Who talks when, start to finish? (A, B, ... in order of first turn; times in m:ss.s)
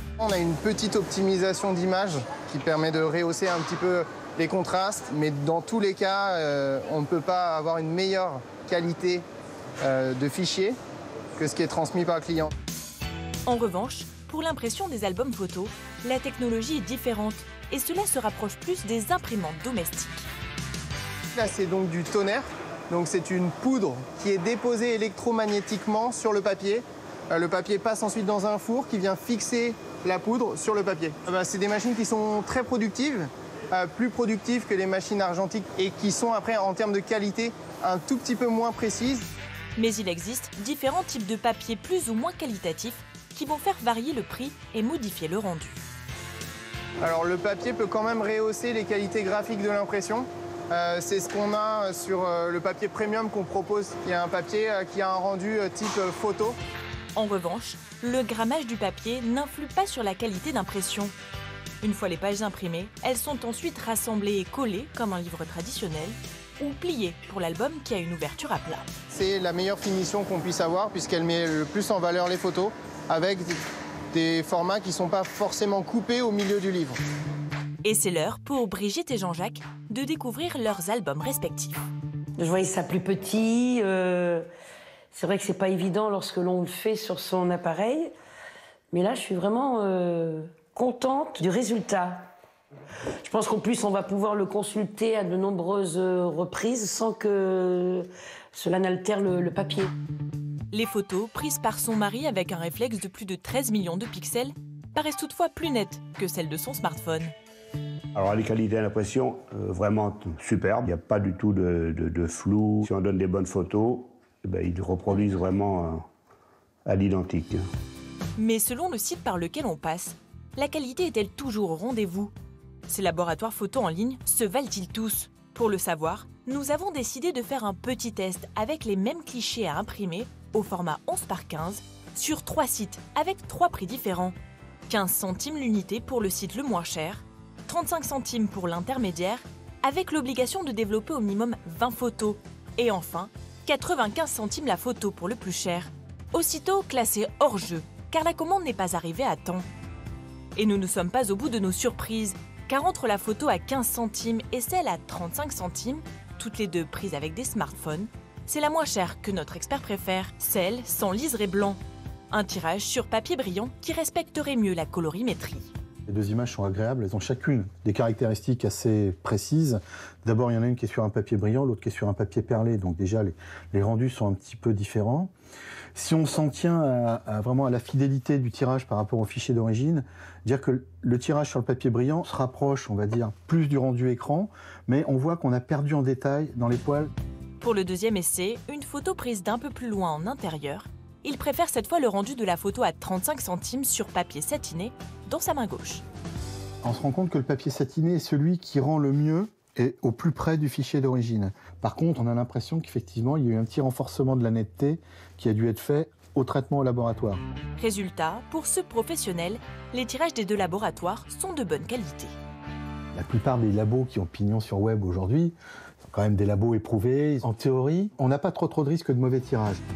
0:00.2-0:09.2 A
0:09.8-0:10.8 A
0:11.4-0:12.5 A
0:13.4-0:20.2 B
0:21.3-0:39.3 A
0:39.8-0:45.8 B
0:47.0-0:56.6 A
0:57.1-1:01.1 B
1:01.8-1:08.8 B
1:09.1-1:13.6 A
1:14.1-1:17.0 A
1:17.8-1:21.8 B
1:22.4-1:24.4 C
1:25.1-1:28.1 C
1:28.9-1:32.3 C
1:33.2-1:39.9 C
1:40.7-1:47.3 B
1:48.1-1:56.0 D
1:56.8-1:57.6 D
1:58.4-2:02.3 B
2:02.9-2:14.3 B
2:14.9-2:29.6 B
2:30.6-2:41.8 B
2:42.3-2:45.7 B
2:46.1-2:55.3 E
2:55.9-3:07.1 E
3:07.6-3:16.0 B
3:16.8-3:27.4 E
3:27.8-3:32.3 B
3:33.1-3:35.5 E
3:36.1-3:39.8 E